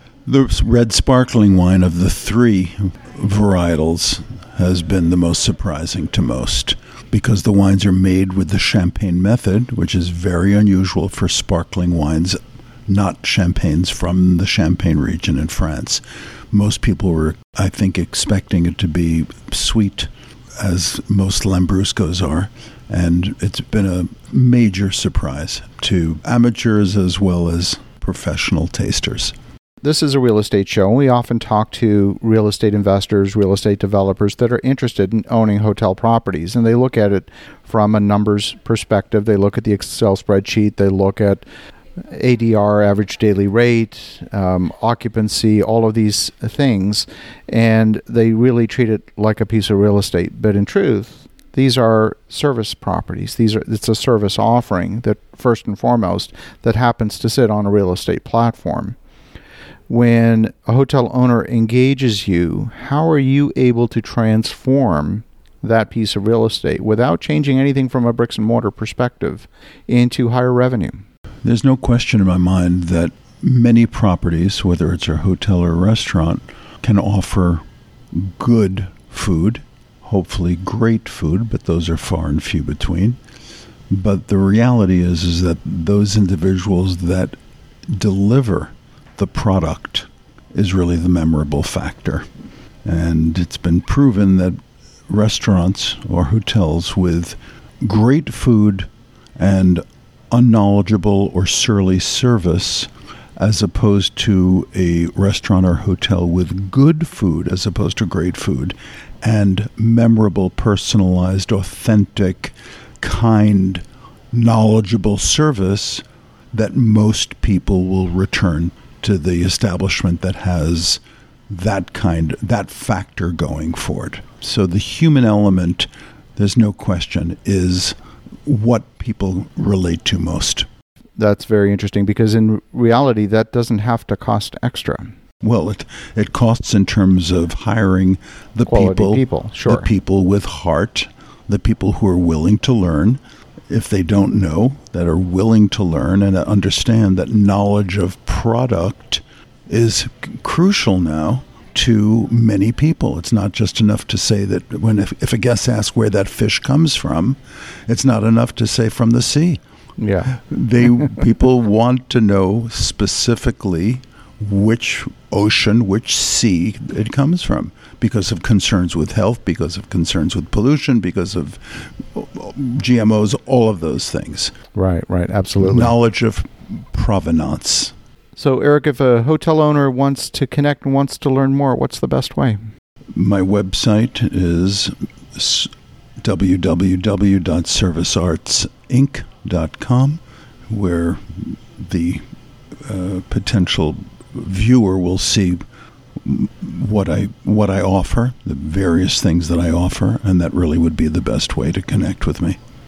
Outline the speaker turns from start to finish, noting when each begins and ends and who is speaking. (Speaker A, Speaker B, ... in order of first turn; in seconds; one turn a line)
Speaker A: 0.2-29.3
Speaker B: 29.8-41.4
Speaker B: 42.0-59.0
Speaker B: 59.9-71.0
Speaker A: 71.4-83.2
Speaker A: 83.9-87.3
Speaker A: 87.9-92.2
Speaker A: 92.8-94.5
Speaker A: 95.1-130.7
Speaker B: 131.2-135.1
Speaker A: 135.4-159.6
Speaker B: 138.7-139.9
Speaker B: 160.0-160.3
Speaker A: 160.3-174.5
Speaker B: 174.7-175.9
Speaker A: 175.6-177.9
Speaker B: 178.3-182.6
Speaker A: 183.1-185.7
Speaker A: 186.2-192.2
Speaker A: 192.8-195.6
Speaker A: 196.2-202.6